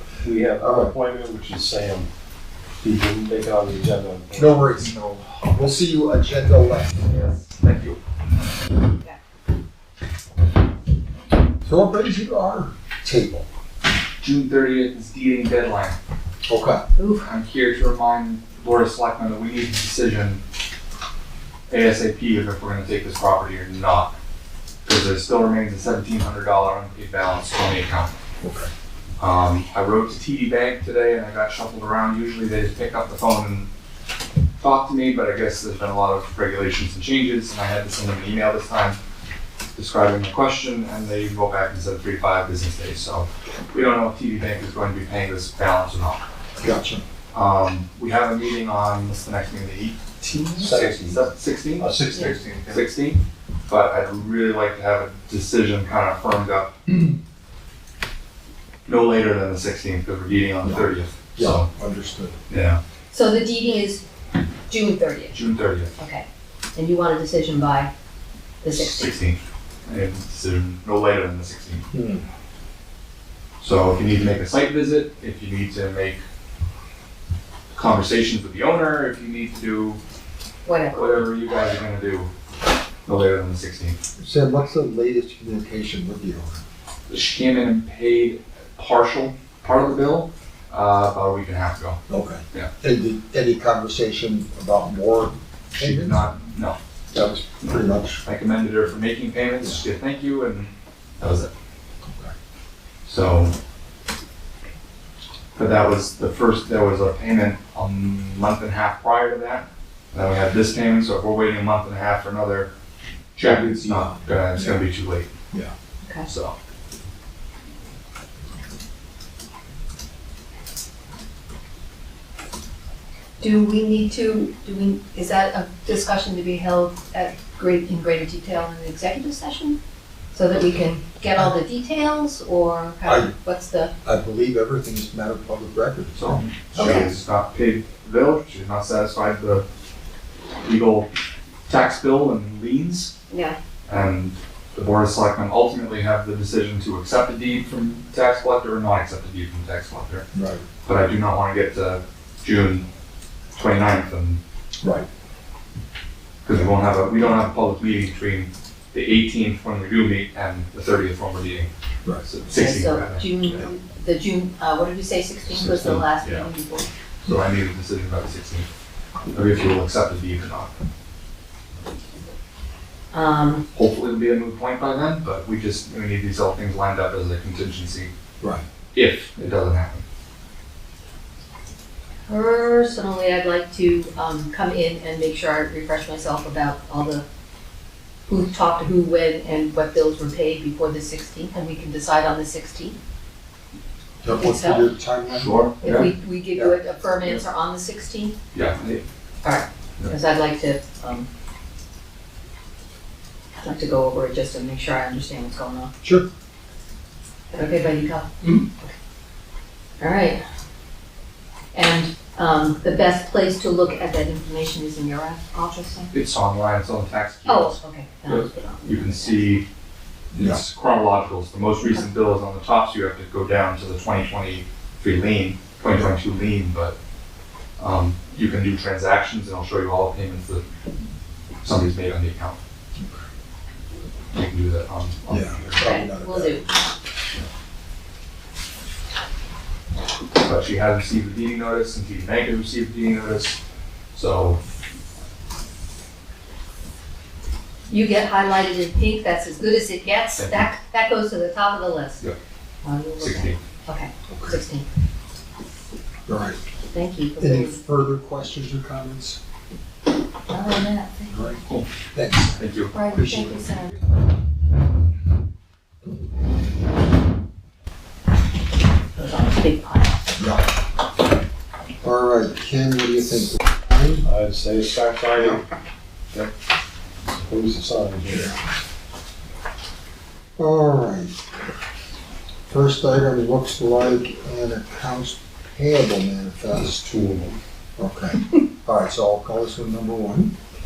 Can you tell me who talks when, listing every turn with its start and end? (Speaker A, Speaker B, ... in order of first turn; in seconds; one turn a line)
Speaker A: 0.2-2.1
Speaker B: 0.6-0.9
Speaker A: 2.8-4.7
Speaker B: 4.3-7.0
Speaker C: 7.1-8.0
Speaker B: 11.6-13.5
Speaker C: 14.2-16.0
Speaker B: 16.5-16.8
Speaker D: 16.9-17.3
Speaker C: 17.2-20.4
Speaker C: 21.7-24.1
Speaker C: 24.8-28.1
Speaker B: 28.4-28.7
Speaker C: 29.2-33.7
Speaker C: 34.6-39.0
Speaker C: 39.7-46.2
Speaker B: 46.6-47.0
Speaker C: 47.3-52.0
Speaker A: 50.6-51.2
Speaker A: 51.8-52.9
Speaker C: 52.7-56.7
Speaker C: 58.9-61.7
Speaker B: 60.6-62.4
Speaker C: 62.5-62.8
Speaker D: 63.1-64.0
Speaker D: 64.7-65.4
Speaker C: 65.3-65.9
Speaker D: 66.0-67.9
Speaker D: 68.6-69.1
Speaker C: 68.7-71.8
Speaker B: 71.9-72.2
Speaker C: 73.6-76.2
Speaker C: 77.7-80.0
Speaker D: 80.6-81.2
Speaker C: 80.9-82.3
Speaker C: 83.0-84.0
Speaker B: 84.2-86.6
Speaker C: 87.1-92.0
Speaker B: 92.1-96.2
Speaker C: 95.8-96.8
Speaker B: 97.1-98.2
Speaker C: 98.2-101.5
Speaker B: 102.0-102.3
Speaker C: 103.0-103.5
Speaker C: 105.5-112.7
Speaker C: 113.3-115.3
Speaker B: 113.4-114.8
Speaker C: 116.2-116.5
Speaker D: 123.4-129.8
Speaker D: 130.3-133.9
Speaker B: 133.0-133.3
Speaker B: 134.0-137.2
Speaker C: 136.1-139.6
Speaker D: 136.7-137.1
Speaker C: 140.6-141.1
Speaker C: 141.7-143.1
Speaker D: 143.3-143.6
Speaker C: 143.9-150.2
Speaker B: 150.3-150.6
Speaker C: 150.8-152.8
Speaker C: 153.5-154.4
Speaker B: 154.8-155.1
Speaker C: 156.4-161.7
Speaker C: 162.2-163.3
Speaker D: 162.5-166.9
Speaker C: 165.6-166.5
Speaker C: 167.3-168.7
Speaker C: 169.3-170.7
Speaker D: 173.1-173.6
Speaker C: 173.7-178.1
Speaker C: 178.9-180.0
Speaker D: 182.3-187.2
Speaker D: 188.3-193.0
Speaker B: 194.2-195.6
Speaker D: 194.3-194.9
Speaker C: 195.3-196.1
Speaker D: 195.8-198.3
Speaker C: 198.5-199.0
Speaker D: 199.4-201.3
Speaker D: 203.6-205.9
Speaker B: 206.0-206.3
Speaker D: 207.5-208.9
Speaker D: 210.0-210.4
Speaker D: 211.7-216.1
Speaker C: 216.1-219.6
Speaker D: 217.4-219.5
Speaker C: 220.3-226.9
Speaker B: 220.3-220.6
Speaker C: 227.8-230.6
Speaker C: 231.6-232.6
Speaker B: 233.0-233.2
Speaker C: 234.3-235.9
Speaker B: 235.3-236.9
Speaker D: 235.8-236.7
Speaker C: 240.4-243.6
Speaker C: 244.1-244.6
Speaker D: 247.9-252.2
Speaker C: 250.4-250.7
Speaker D: 252.8-254.9
Speaker C: 253.2-253.6
Speaker B: 254.3-254.6
Speaker B: 256.3-256.6
Speaker D: 256.9-257.8
Speaker B: 257.4-259.4
Speaker D: 260.5-261.6
Speaker B: 261.3-261.6
Speaker B: 262.1-263.9
Speaker C: 262.6-262.9
Speaker D: 262.9-263.9
Speaker D: 269.1-270.2
Speaker B: 270.4-270.6
Speaker B: 272.0-274.3
Speaker A: 274.2-275.6
Speaker B: 275.4-275.6
Speaker A: 277.3-278.5
Speaker B: 278.3-278.6
Speaker B: 280.6-281.4
Speaker B: 282.7-287.0
Speaker A: 286.7-287.6
Speaker B: 288.0-290.5